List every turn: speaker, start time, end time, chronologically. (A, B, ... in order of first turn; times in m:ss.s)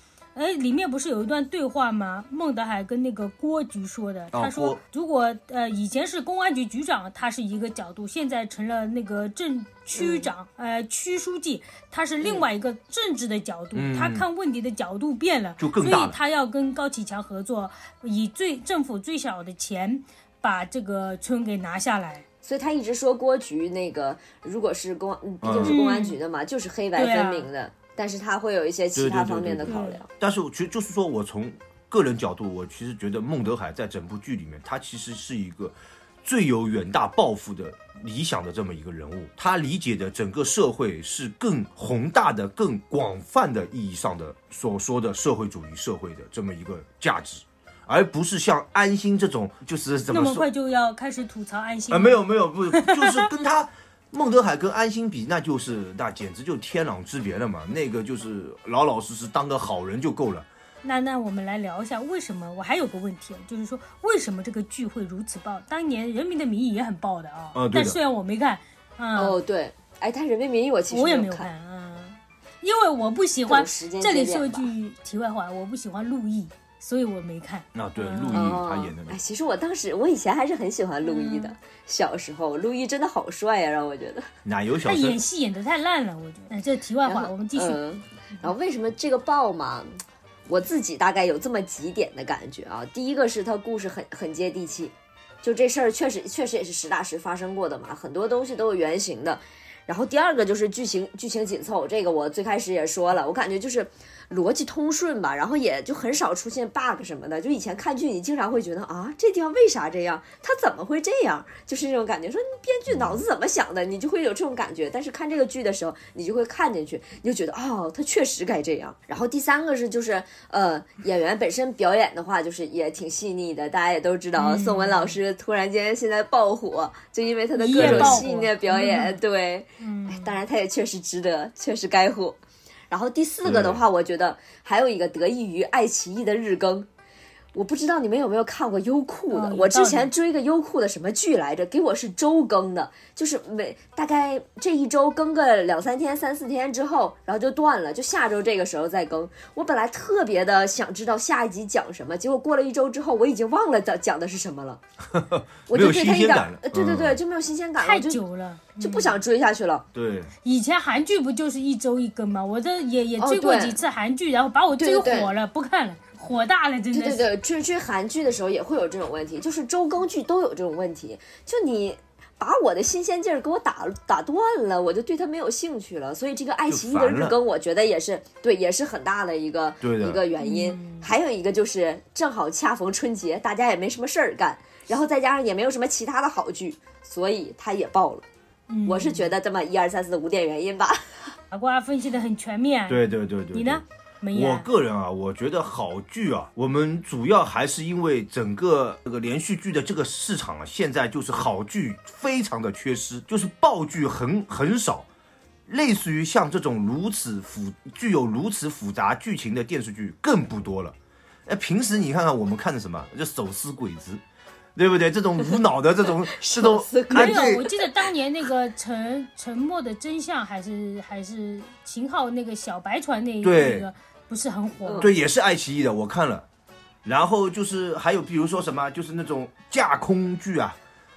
0:00.3-0:22.2 A
0:04.3-0:04.8 B
0:09.9-0:10.3 C
0:13.7-0:14.2 B
0:15.6-0:16.2 B
0:22.4-0:30.1 C
0:25.4-0:25.8 B
0:25.6-0:26.2 A
0:27.0-0:27.5 A
0:28.9-0:50.5 B
0:29.6-0:30.0 A
0:50.1-0:53.3 A
0:51.9-1:00.5 B
1:00.8-1:09.4 A
1:07.5-1:08.0 B
1:09.2-1:11.5 C
1:10.9-1:18.5 A
1:13.5-1:14.7 C
1:17.7-1:19.2 B
1:18.3-1:24.3 C
1:21.0-1:21.5 A
1:24.4-1:25.2 B
1:24.8-1:27.8 A
1:27.0-1:29.9 C
1:30.5-2:12.4 C
1:52.9-1:53.2 B
2:04.4-2:05.2 A
2:07.6-2:09.2 A
2:07.7-2:08.3 B
2:09.8-2:10.4 A
2:12.9-2:16.9 C
2:13.4-2:13.8 B
2:17.5-2:34.8 C
2:19.3-2:20.1 A
2:35.1-2:37.2 B
2:35.7-2:38.2 C
2:37.8-2:39.2 A
2:38.8-2:39.8 C
2:39.9-2:40.3 B
2:40.4-2:47.3 A
2:43.2-2:43.8 C
2:44.8-2:45.3 C
2:46.9-3:08.2 C
2:56.7-2:57.4 B
2:59.8-3:00.2 B
3:00.4-3:01.1 A
3:08.7-3:09.3 A
3:08.8-3:11.3 C
3:11.5-3:14.6 A
3:12.9-3:25.1 B
3:25.7-3:34.2 B
3:34.8-3:37.7 B
3:36.3-3:37.8 C
3:37.1-3:45.1 A
3:43.4-3:43.9 B
3:44.8-3:45.1 C
3:45.0-3:46.4 B
3:47.0-3:50.8 B